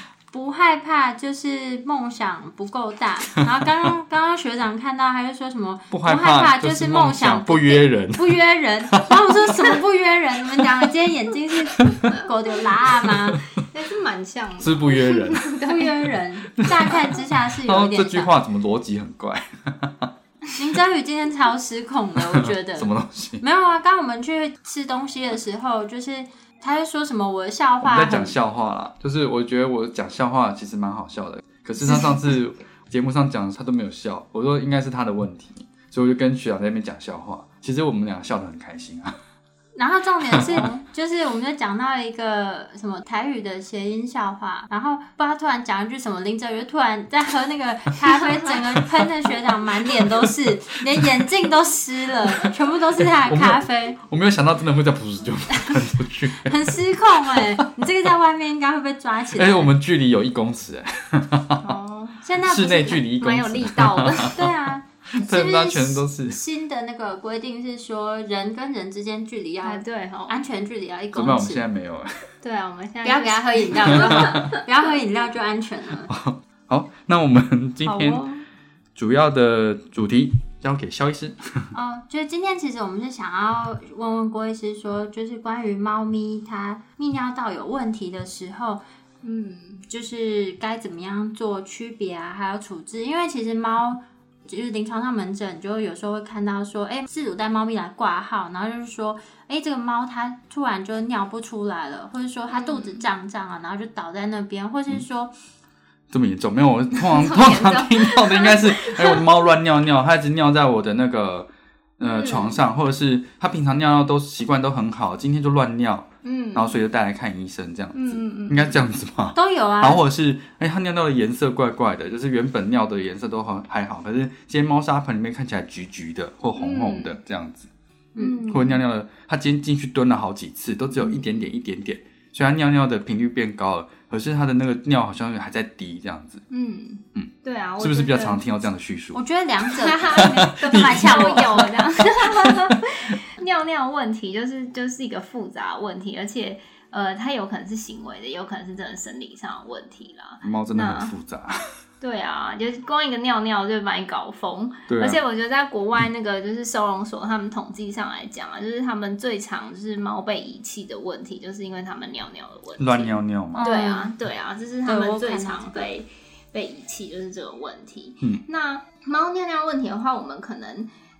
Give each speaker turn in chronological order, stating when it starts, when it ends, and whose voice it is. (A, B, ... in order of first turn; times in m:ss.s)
0:00.3-0:13.4 A
0:05.9-0:08.4 B
0:08.9-0:09.2 B
0:11.8-0:12.1 B
0:13.0-0:13.4 B
0:13.6-0:16.0 C
0:14.6-0:15.4 B
0:15.6-0:18.3 A
0:16.6-0:20.1 B
0:20.6-0:28.3 A
0:22.3-0:23.4 B
0:27.8-0:39.2 B
0:31.8-0:32.2 A
0:39.8-0:54.0 A
0:40.3-0:40.7 B
0:40.5-0:40.8 C
0:53.2-0:57.5 B
0:56.4-0:59.7 A
0:59.3-1:01.7 B
1:01.6-1:02.2 C
1:02.2-1:03.0 A
1:02.4-1:04.5 B
1:02.9-1:04.4 C
1:04.3-1:11.6 A
1:05.1-1:06.4 B
1:09.6-1:10.4 C
1:11.1-1:12.2 B
1:12.4-1:14.6 C
1:13.0-1:16.1 A
1:13.8-1:14.5 B
1:16.1-1:18.2 B
1:17.8-1:18.4 A
1:19.0-1:21.7 B
1:21.7-1:28.8 A
1:29.2-1:29.8 C
1:29.9-1:45.3 A
1:42.5-1:43.0 C
1:46.1-2:07.7 B
1:46.9-1:49.3 C
1:52.0-1:52.6 C
1:56.2-1:56.8 C
1:57.9-1:58.8 C
1:59.3-2:00.0 A
2:06.6-2:07.2 C
2:08.2-2:08.5 A
2:08.2-2:08.8 C
2:08.5-2:16.4 B
2:16.5-2:18.4 C
2:17.2-2:22.9 B
2:19.1-2:21.6 A
2:19.8-2:31.1 C
2:30.4-2:31.6 B
2:32.0-2:50.9 C
2:34.9-2:35.2 B
2:42.8-2:43.7 B
2:43.6-2:44.1 A
2:44.8-2:45.9 A